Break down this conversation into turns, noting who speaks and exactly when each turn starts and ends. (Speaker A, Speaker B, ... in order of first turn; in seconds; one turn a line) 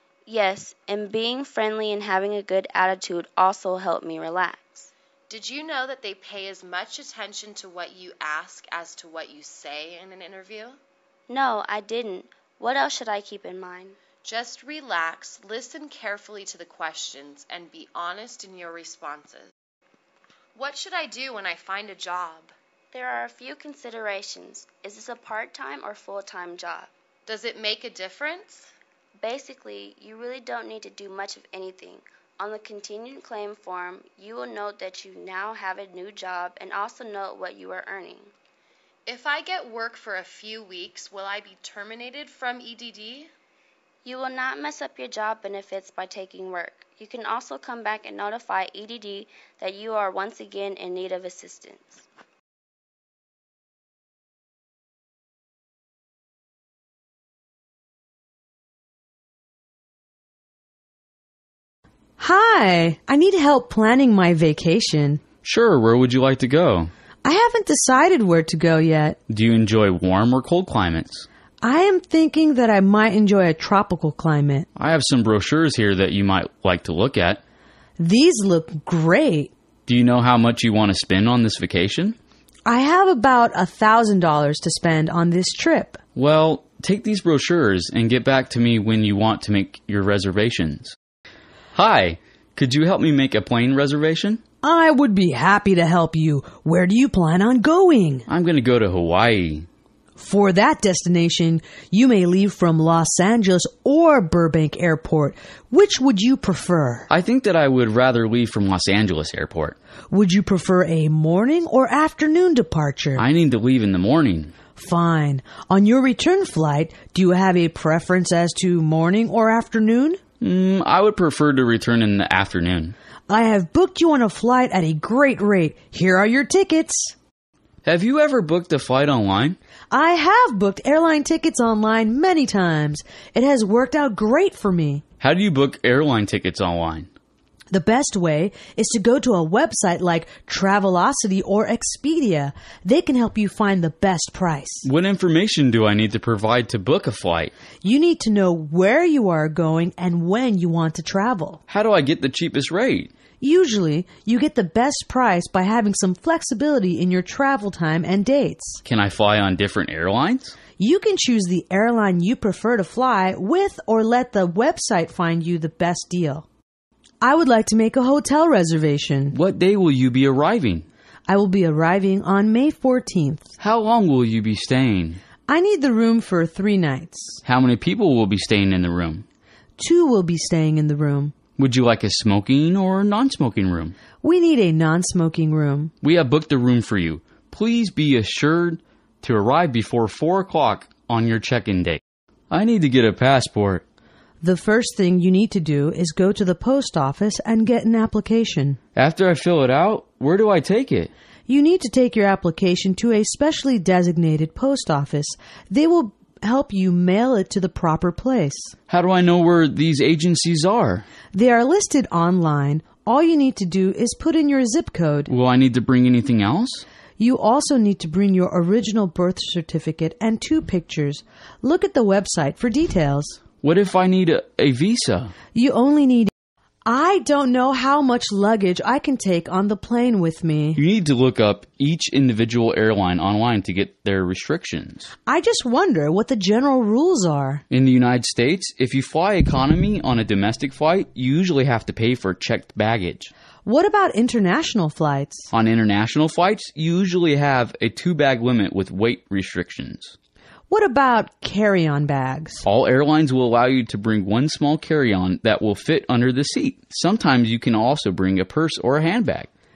Speaker A: 0.2-4.9
Speaker B: 5.3-10.8
Speaker A: 11.3-14.0
Speaker B: 14.2-19.5
Speaker B: 20.5-22.5
Speaker A: 22.9-26.9
Speaker B: 27.3-28.7
Speaker A: 29.2-38.3
Speaker B: 39.0-43.3
Speaker A: 44.0-52.0
Speaker C: 62.2-65.2
Speaker D: 65.4-66.9
Speaker C: 67.2-69.2
Speaker D: 69.3-71.2
Speaker C: 71.6-74.7
Speaker D: 74.8-77.4
Speaker C: 78.0-79.5
Speaker D: 79.9-82.2
Speaker C: 82.7-86.0
Speaker D: 86.1-90.9
Speaker D: 91.7-94.4
Speaker C: 94.6-98.2
Speaker D: 98.3-99.7
Speaker C: 100.2-107.1
Speaker D: 107.1-109.8
Speaker C: 110.1-113.2
Speaker D: 113.2-114.5
Speaker C: 114.8-120.2
Speaker D: 120.4-122.9
Speaker C: 123.3-127.1
Speaker D: 127.8-129.6
Speaker C: 129.9-135.0
Speaker D: 135.2-137.1
Speaker C: 137.7-144.8
Speaker D: 144.8-147.5
Speaker C: 147.8-151.6
Speaker D: 151.7-153.1
Speaker C: 153.4-158.8
Speaker D: 158.8-160.6
Speaker C: 160.8-166.4
Speaker C: 167.2-169.3
Speaker D: 169.3-170.9
Speaker C: 171.3-173.5
Speaker D: 173.6-175.2
Speaker C: 175.5-177.4
Speaker D: 177.4-179.2
Speaker C: 179.8-181.3
Speaker D: 181.6-183.9
Speaker C: 184.2-185.9
Speaker D: 186.0-193.8
Speaker C: 194.4-198.8
Speaker D: 198.9-201.1
Speaker C: 201.5-208.7
Speaker D: 208.9-211.1
Speaker C: 211.3-215.3
Speaker D: 215.3-216.8
Speaker C: 217.2-223.4
Speaker D: 223.6-225.3
Speaker C: 225.5-226.3
Speaker C: 226.8-230.8
Speaker D: 230.8-235.1
Speaker C: 235.3-237.6
Speaker D: 237.7-243.3
Speaker C: 243.6-245.5
Speaker D: 245.5-250.1
Speaker C: 250.7-252.6
Speaker D: 252.6-259.5